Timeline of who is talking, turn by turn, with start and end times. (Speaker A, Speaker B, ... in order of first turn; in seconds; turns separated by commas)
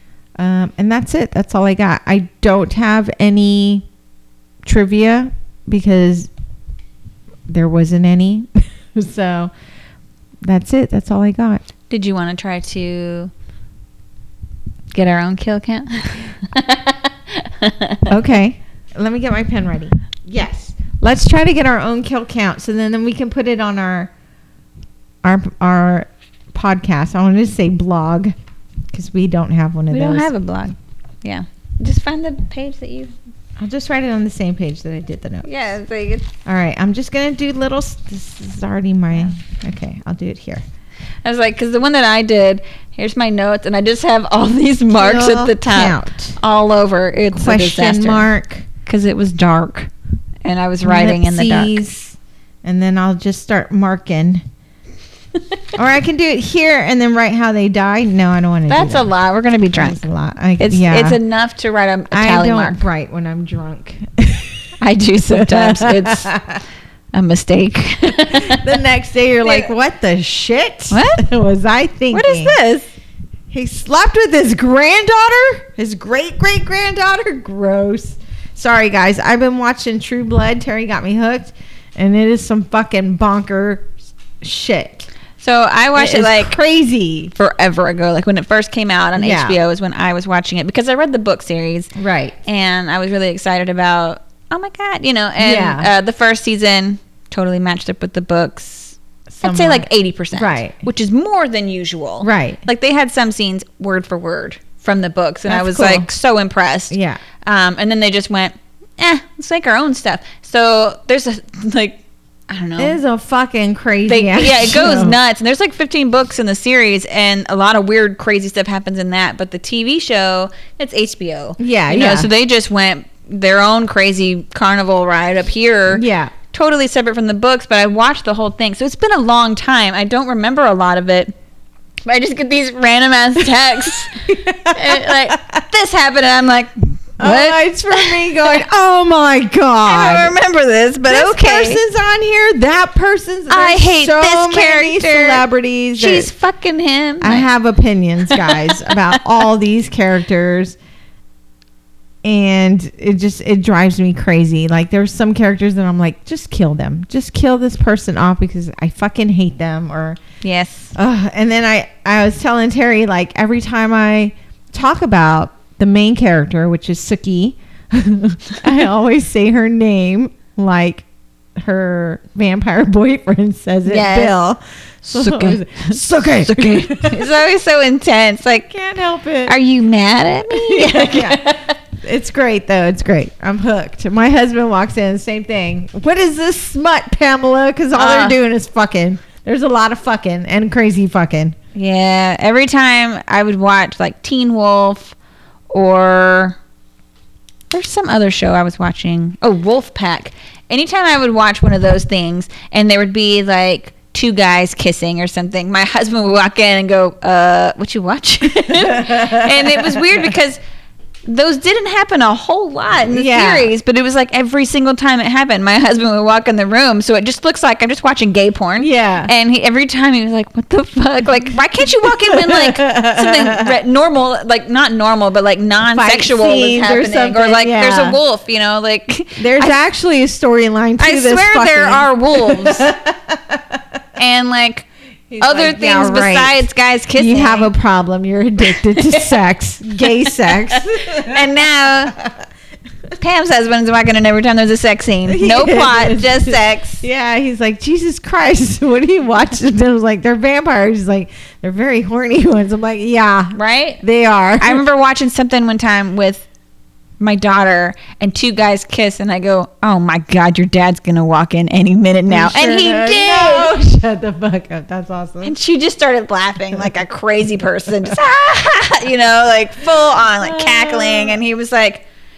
Speaker A: 0.4-3.8, Speaker A: 4.6-6.3, Speaker A: 7.5-9.5, Speaker A: 10.4-11.6, Speaker B: 11.9-13.3, Speaker B: 14.9-18.1, Speaker A: 18.1-24.1, Speaker A: 25.2-28.3, Speaker A: 28.9-30.3, Speaker B: 29.9-33.1, Speaker A: 33.6-35.5, Speaker B: 35.4-36.3, Speaker A: 36.4-40.6, Speaker B: 41.2-48.3, Speaker A: 44.9-46.4, Speaker A: 47.3-48.7, Speaker B: 48.9-49.9, Speaker B: 50.4-51.8, Speaker A: 50.8-54.4, Speaker A: 55.8-59.1, Speaker B: 58.7-60.0, Speaker A: 59.7-61.2, Speaker B: 60.6-62.8, Speaker A: 62.1-64.5, Speaker B: 64.8-66.3, Speaker A: 65.3-66.6, Speaker B: 67.1-68.7, Speaker A: 68.2-72.5, Speaker B: 69.4-69.7, Speaker B: 70.9-71.2, Speaker B: 72.1-72.9, Speaker A: 73.5-85.1, Speaker B: 85.4-86.6, Speaker A: 85.9-87.3, Speaker B: 87.3-91.9, Speaker A: 89.2-89.6, Speaker A: 92.0-92.4, Speaker B: 92.4-113.0, Speaker A: 95.4-95.9, Speaker A: 99.3-100.8, Speaker A: 102.2-102.6, Speaker A: 105.5-106.1, Speaker A: 106.9-107.2, Speaker A: 112.8-115.2, Speaker B: 114.1-131.3, Speaker A: 121.6-122.3, Speaker A: 125.9-126.3, Speaker B: 132.0-138.5, Speaker A: 134.0-135.6, Speaker A: 137.2-140.3, Speaker B: 139.9-141.8, Speaker A: 141.1-146.3, Speaker B: 143.5-147.5, Speaker A: 147.2-150.8, Speaker B: 148.3-149.1, Speaker A: 152.2-160.2, Speaker B: 160.4-160.9, Speaker A: 160.9-171.0, Speaker A: 171.6-177.3, Speaker B: 173.8-174.3, Speaker B: 175.0-178.7, Speaker A: 178.7-179.6, Speaker B: 179.4-181.8, Speaker A: 180.5-191.6, Speaker B: 187.9-188.3, Speaker B: 191.7-195.1, Speaker B: 195.7-196.6, Speaker B: 197.7-210.6, Speaker A: 208.7-210.1, Speaker B: 211.2-229.8, Speaker A: 213.1-213.7, Speaker A: 218.8-219.3, Speaker A: 222.0-223.7, Speaker A: 225.8-228.2, Speaker A: 229.4-233.8, Speaker B: 231.0-232.9, Speaker B: 234.2-234.9, Speaker A: 235.3-242.3, Speaker B: 235.4-237.7, Speaker B: 238.7-239.3, Speaker B: 240.0-242.2, Speaker B: 243.2-247.0, Speaker A: 245.3-254.8, Speaker B: 253.5-254.0, Speaker B: 254.6-256.5, Speaker B: 257.2-263.8, Speaker A: 262.3-265.5, Speaker B: 265.4-272.0, Speaker A: 270.4-271.4